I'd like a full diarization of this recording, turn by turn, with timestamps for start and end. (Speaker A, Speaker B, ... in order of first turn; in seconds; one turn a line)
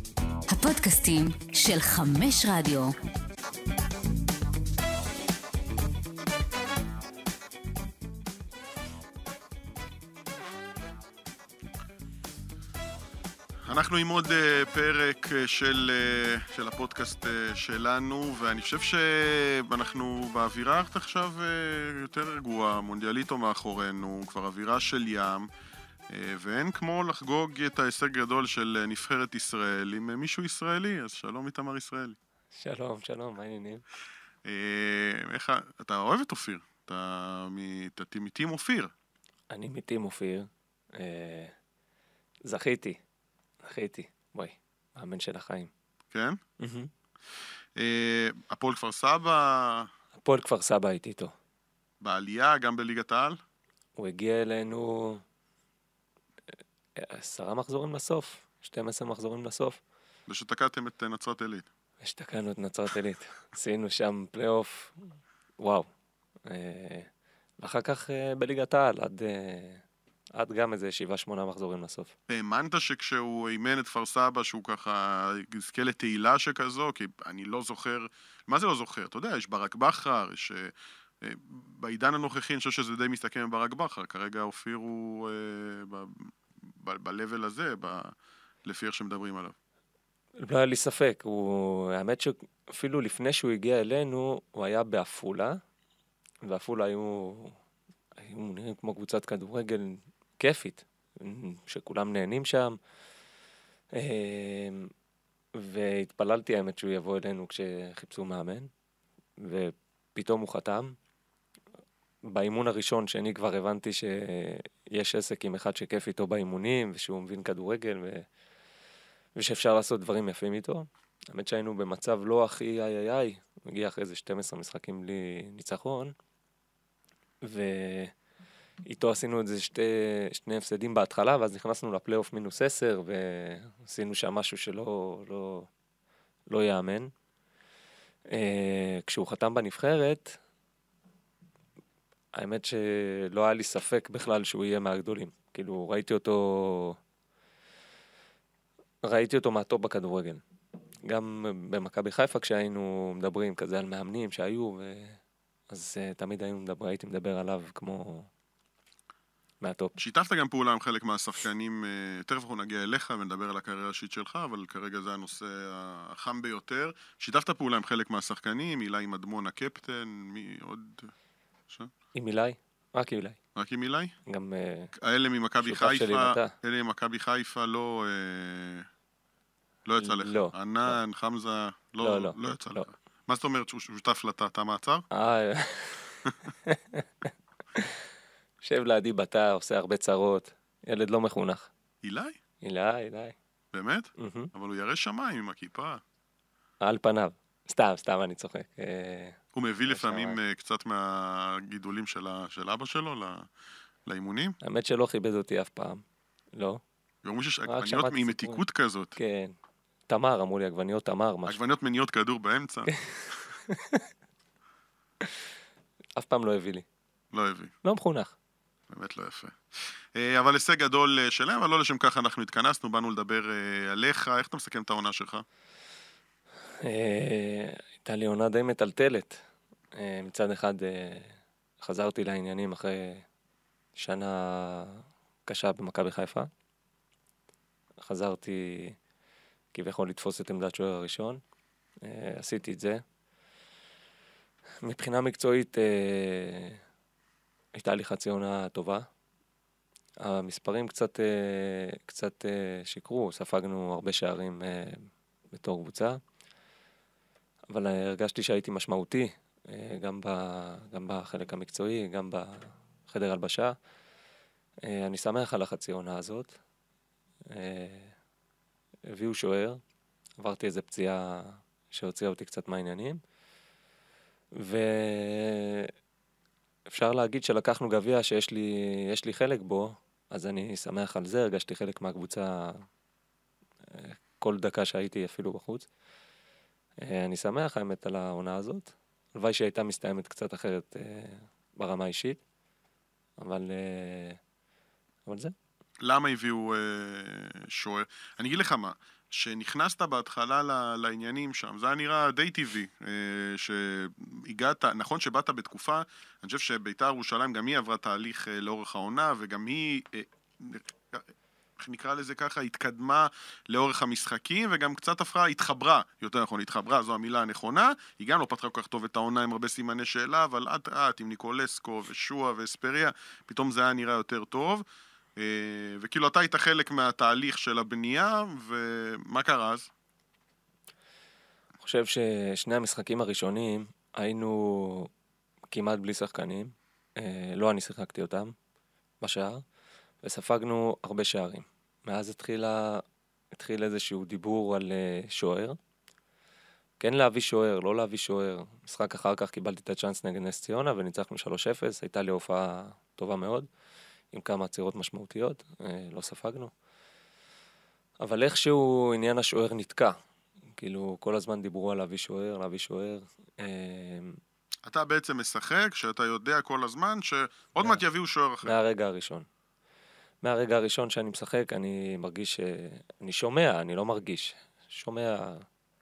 Speaker A: 0.5-2.9
Speaker B: 13.7-25.5
Speaker B: 26.1-32.2
Speaker C: 32.5-33.9
Speaker B: 34.4-38.9
Speaker C: 39.5-41.5
Speaker C: 42.5-43.0
Speaker C: 43.6-45.7
Speaker B: 46.1-46.4
Speaker C: 46.6-46.9
Speaker B: 47.8-49.9
Speaker C: 50.2-51.4
Speaker B: 52.0-53.4
Speaker C: 54.0-55.2
Speaker C: 57.0-59.8
Speaker B: 60.3-61.7
Speaker C: 62.0-65.9
Speaker C: 66.5-67.1
Speaker C: 67.6-69.8
Speaker C: 70.3-72.1
Speaker B: 72.3-89.5
Speaker C: 90.4-95.6
Speaker C: 96.4-97.6
Speaker C: 98.2-102.8
Speaker C: 103.9-104.9
Speaker C: 105.5-108.7
Speaker C: 109.4-111.0
Speaker C: 112.2-118.3
Speaker C: 119.4-126.1
Speaker C: 127.4-128.1
Speaker C: 128.9-135.7
Speaker C: 136.5-137.1
Speaker C: 138.3-140.4
Speaker C: 142.3-147.0
Speaker C: 149.0-150.4
Speaker C: 151.1-158.3
Speaker C: 159.6-160.0
Speaker B: 160.0-171.1
Speaker C: 172.1-173.4
Speaker B: 173.6-174.2
Speaker C: 174.3-174.9
Speaker B: 175.0-178.9
Speaker C: 175.6-176.6
Speaker B: 179.9-185.1
Speaker C: 180.0-181.0
Speaker C: 182.0-182.9
Speaker C: 185.1-188.0
Speaker C: 188.6-191.7
Speaker B: 192.0-192.4
Speaker C: 192.6-193.4
Speaker B: 193.7-196.0
Speaker C: 194.2-194.5
Speaker C: 196.8-200.4
Speaker B: 199.5-203.5
Speaker B: 204.1-204.6
Speaker C: 204.6-206.0
Speaker C: 206.6-206.8
Speaker B: 207.2-209.2
Speaker C: 207.7-208.6
Speaker C: 209.2-209.6
Speaker C: 210.1-211.6
Speaker B: 211.5-213.4
Speaker C: 212.9-214.1
Speaker C: 216.2-216.9
Speaker B: 217.3-217.7
Speaker C: 217.8-218.3
Speaker B: 218.9-225.4
Speaker C: 226.8-229.4
Speaker C: 229.9-233.2
Speaker C: 234.0-236.5
Speaker C: 238.0-239.0
Speaker C: 239.7-241.4
Speaker C: 242.0-243.0
Speaker C: 244.8-246.8
Speaker C: 247.8-249.1
Speaker C: 250.2-256.2
Speaker C: 257.7-263.8
Speaker C: 264.8-266.6
Speaker C: 267.5-268.1
Speaker C: 269.1-269.8
Speaker C: 270.4-273.2
Speaker C: 274.6-275.9
Speaker C: 276.9-282.9
Speaker C: 283.9-285.9
Speaker C: 287.0-292.4
Speaker C: 293.4-294.4
Speaker C: 295.3-295.5
Speaker B: 296.0-324.9
Speaker B: 325.4-329.9
Speaker C: 331.8-335.1
Speaker C: 335.7-338.5
Speaker C: 339.2-339.6
Speaker C: 340.2-345.8
Speaker C: 347.0-353.7
Speaker C: 354.3-356.7
Speaker C: 358.2-360.2
Speaker C: 360.8-364.4
Speaker B: 364.9-368.8
Speaker C: 368.6-369.5
Speaker C: 370.4-375.7